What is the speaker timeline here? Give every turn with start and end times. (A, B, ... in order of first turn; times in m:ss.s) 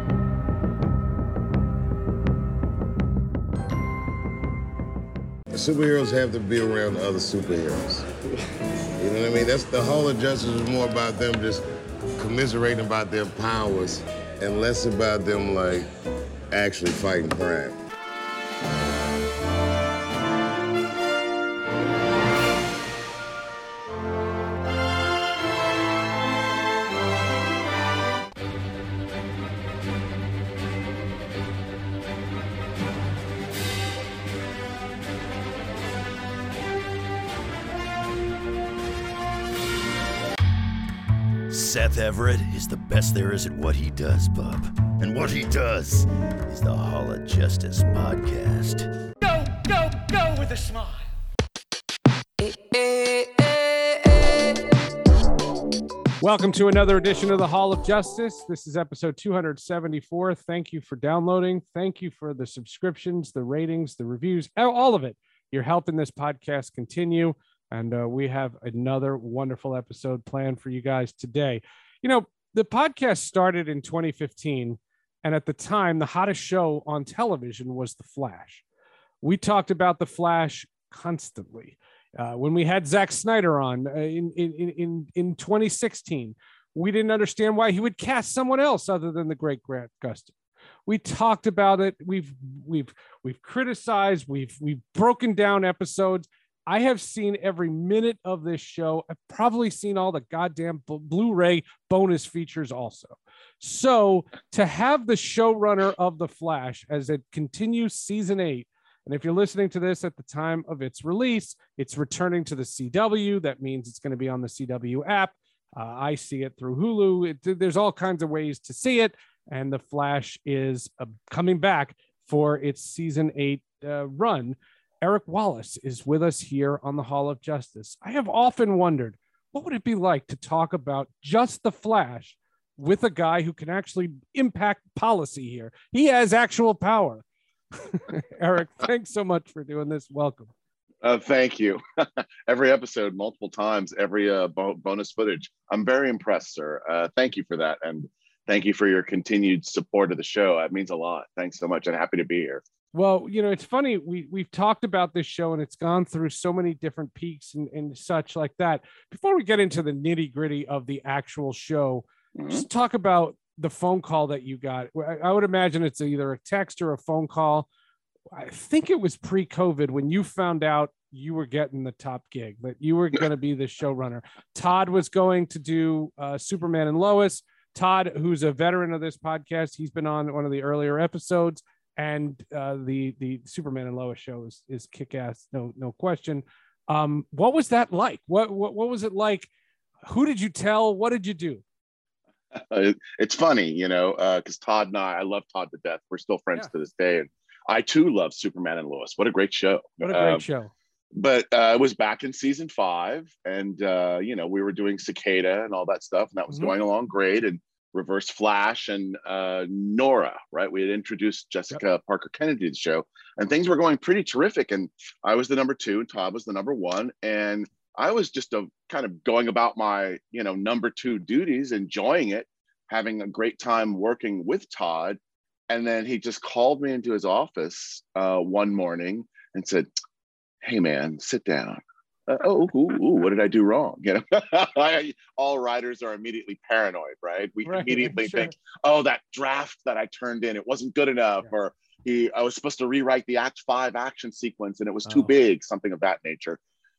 0:05.5-0:08.1 A
0:09.0-0:11.6 A
0:12.2-0:15.9 A
0:16.5-0:17.8 A
0:41.5-0:48.9 B
0:49.2-0:51.1 C
0:52.4-0:54.6 C
0:56.2-1:18.6 D
1:19.2-1:30.3 D
1:30.9-2:20.5 D
2:21.0-2:32.6 E
2:32.9-2:47.7 D
2:42.4-2:42.6 E
2:48.3-3:09.5 D
3:10.1-3:11.6 D
3:12.5-3:20.4 E
3:20.0-3:20.7 D
3:21.1-3:45.2 E
3:45.7-3:49.9 E
3:50.6-4:06.6 E
3:57.6-3:58.5 D